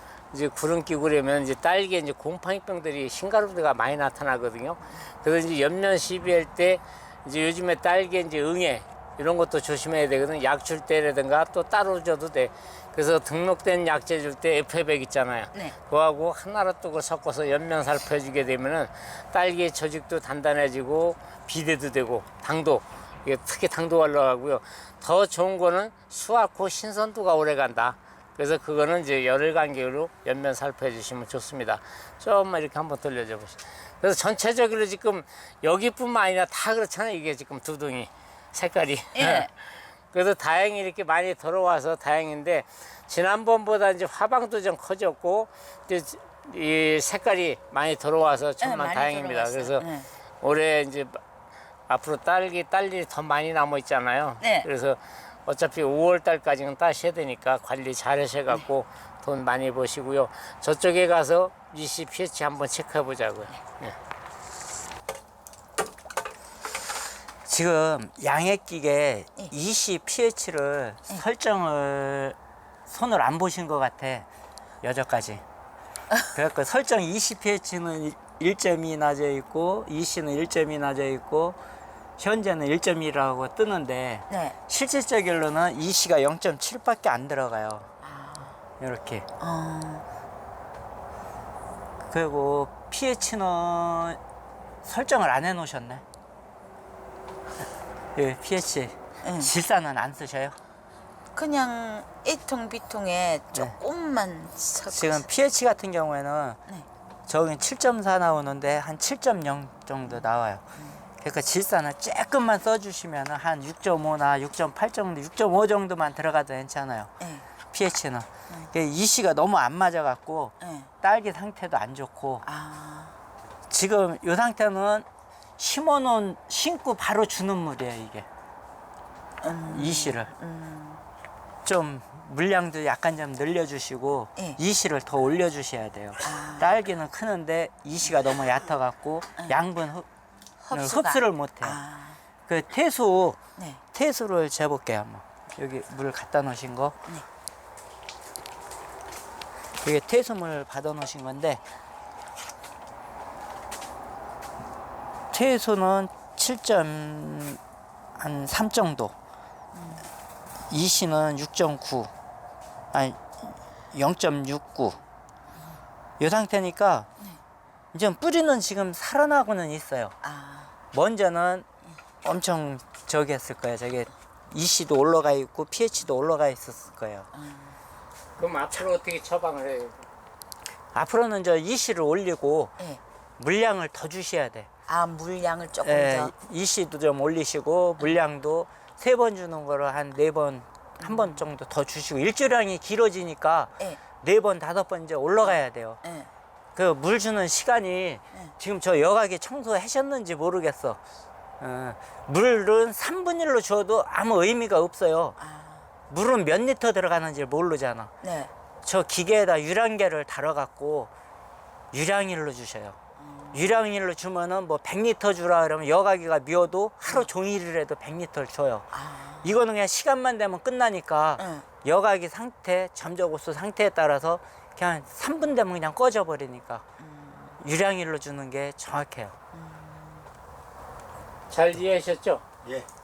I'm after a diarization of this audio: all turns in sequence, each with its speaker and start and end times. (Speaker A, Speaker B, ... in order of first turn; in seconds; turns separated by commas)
Speaker A: 0.3-49.9, Speaker B: 39.1-39.5, Speaker B: 48.6-50.1, Speaker A: 50.4-51.2, Speaker A: 51.9-64.0, Speaker B: 54.4-54.7, Speaker C: 67.5-74.3, Speaker C: 74.8-75.4, Speaker C: 76.3-81.6, Speaker C: 82.2-87.9, Speaker B: 84.3-84.6, Speaker B: 88.0-88.6, Speaker C: 88.8-89.3, Speaker B: 89.4-90.0, Speaker C: 92.1-94.2, Speaker C: 94.8-96.0, Speaker C: 98.2-100.6, Speaker B: 99.2-99.5, Speaker B: 101.3-105.3, Speaker C: 104.9-106.6, Speaker C: 107.3-110.7, Speaker B: 110.8-111.0, Speaker C: 111.2-117.1, Speaker B: 117.2-117.5, Speaker C: 117.7-122.5, Speaker B: 120.6-120.9, Speaker B: 122.5-123.2, Speaker C: 123.7-125.1, Speaker C: 125.6-128.3, Speaker B: 129.4-131.0, Speaker C: 129.7-130.3, Speaker C: 131.7-140.1, Speaker B: 136.2-136.8, Speaker B: 140.6-142.2, Speaker C: 140.7-141.8, Speaker C: 142.5-143.4, Speaker B: 143.6-143.8, Speaker C: 143.9-147.0, Speaker C: 149.8-151.6, Speaker C: 155.3-157.6, Speaker C: 158.2-159.2, Speaker B: 159.8-160.1, Speaker C: 160.7-162.1, Speaker C: 162.9-165.0, Speaker C: 166.2-167.1, Speaker C: 167.9-170.2, Speaker B: 170.2-170.7, Speaker C: 170.9-171.7, Speaker C: 172.2-177.3, Speaker B: 177.3-177.8, Speaker A: 178.4-180.0, Speaker C: 180.9-182.8, Speaker C: 183.4-184.7, Speaker B: 184.9-186.3, Speaker C: 185.8-196.0, Speaker B: 191.0-191.4, Speaker B: 195.4-196.3, Speaker C: 196.8-201.0, Speaker C: 201.6-205.4, Speaker B: 205.4-205.9, Speaker C: 206.1-208.1, Speaker B: 208.2-208.5, Speaker C: 208.8-211.1, Speaker C: 211.9-213.0, Speaker B: 213.2-213.8, Speaker C: 213.5-218.9, Speaker B: 218.9-219.6, Speaker C: 219.4-226.8, Speaker B: 221.4-221.7, Speaker B: 227.0-227.6, Speaker C: 227.6-229.3, Speaker B: 229.5-230.2, Speaker A: 231.5-232.4